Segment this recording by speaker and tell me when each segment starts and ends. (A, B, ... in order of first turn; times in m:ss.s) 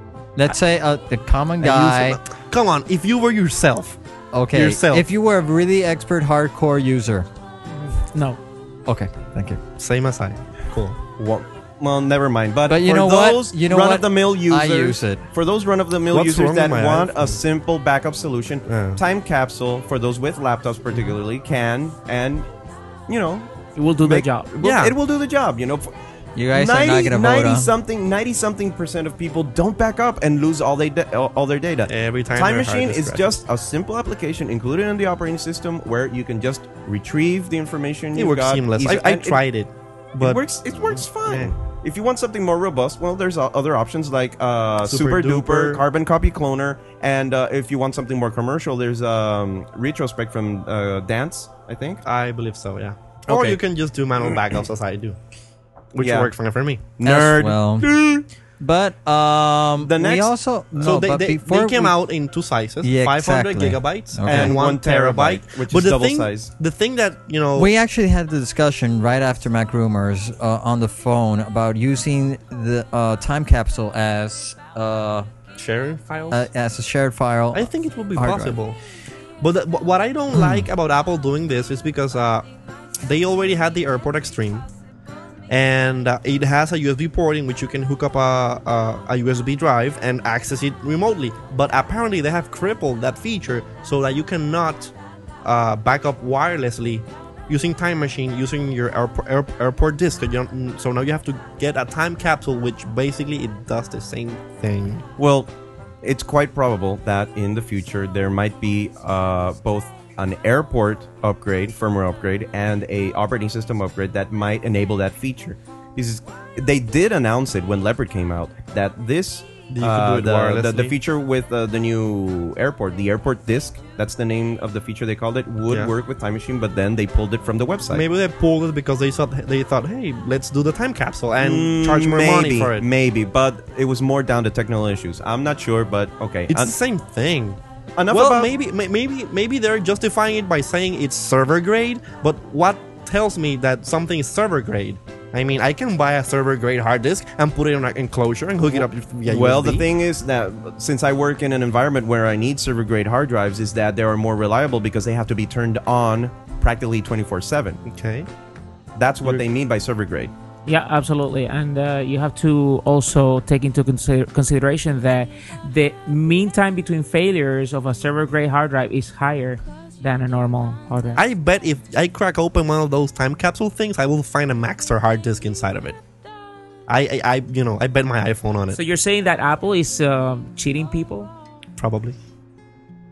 0:00.4-0:02.2 A
0:01.6-0:04.0 B
0:04.3-0:07.3 A
0:04.5-0:05.1 B
0:08.1-0:08.4 C
0:08.9-0:09.6 A
0:09.8-0:11.0 B
0:11.2-0:22.5 D
0:12.7-0:15.2 A
0:16.1-0:17.4 B
0:18.7-0:19.0 B
0:23.1-0:25.9 D
0:23.8-0:24.5 C
0:24.6-0:25.0 B
0:26.4-0:27.7 A
0:26.5-0:39.4 D
0:31.9-0:33.4 B
0:38.2-0:41.5 B
0:40.2-0:52.0 D
0:44.8-0:45.8 B
0:52.0-0:55.2 B
0:53.3-0:53.6 D
0:56.0-0:56.8 B
0:56.0-0:56.3 D
0:57.0-0:58.3 D
0:57.0-0:57.9 A
0:58.6-1:02.0 A
0:59.8-1:00.3 D
1:00.8-1:07.7 B
1:02.8-1:04.6 A
1:04.3-1:06.5 D
1:07.6-1:15.3 A
1:15.6-1:16.4 B
1:16.3-1:18.6 A
1:17.5-1:18.8 B
1:19.4-1:22.5 B
1:20.3-1:20.7 A
1:23.0-1:24.7 B
1:25.5-1:34.9 B
1:35.4-1:45.0 B
1:45.2-1:45.5 D
1:46.0-2:08.0 D
1:59.7-2:01.0 B
2:07.9-2:12.9 B
2:11.4-2:16.7 D
2:16.5-2:17.6 B
2:18.0-2:18.5 D
2:18.1-2:29.9 B
2:28.7-2:37.8 D
2:37.9-2:38.3 B
2:39.0-2:40.3 D
2:40.7-2:51.2 C
2:51.2-2:56.0 B
2:56.9-2:58.8 B
2:58.7-3:01.3 C
3:01.8-3:02.2 B